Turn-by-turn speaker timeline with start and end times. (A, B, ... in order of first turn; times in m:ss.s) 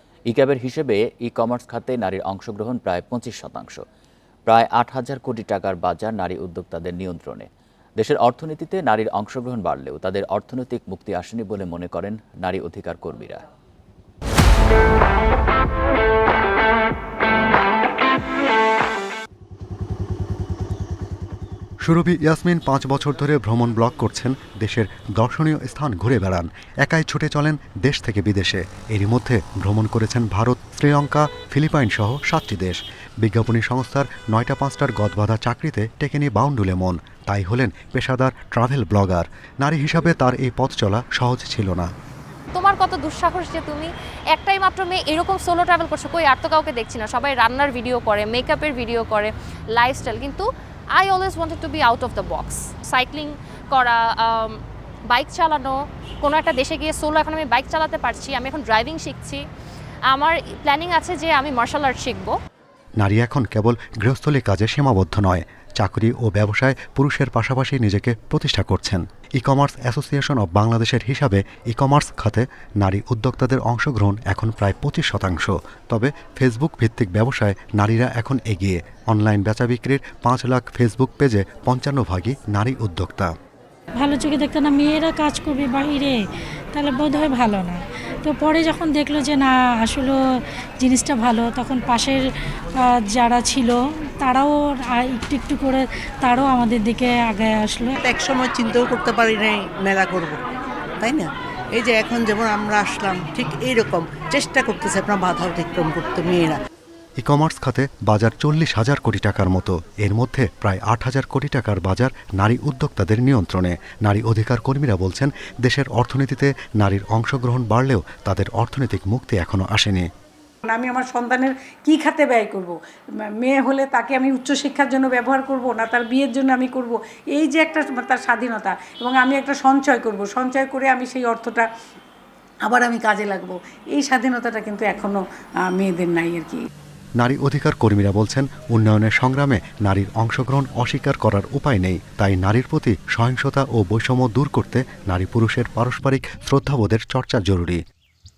0:00.3-0:03.8 A
0:04.5-0:07.5 A
0:08.0-0:13.4 A
0:21.8-0:41.9 B
0:42.5-0:50.4 C
0:51.0-0:54.6 C
0:55.1-0:59.4 C
1:00.1-1:02.3 C
1:03.0-1:23.3 B
1:24.0-1:26.2 D
1:26.7-1:30.2 D
1:30.8-1:32.2 D
1:33.1-1:38.0 D
1:38.0-1:40.4 E
1:41.0-1:46.6 E
1:47.2-2:00.1 B
2:00.7-2:11.6 F
2:12.6-2:16.6 F
2:17.2-2:27.8 B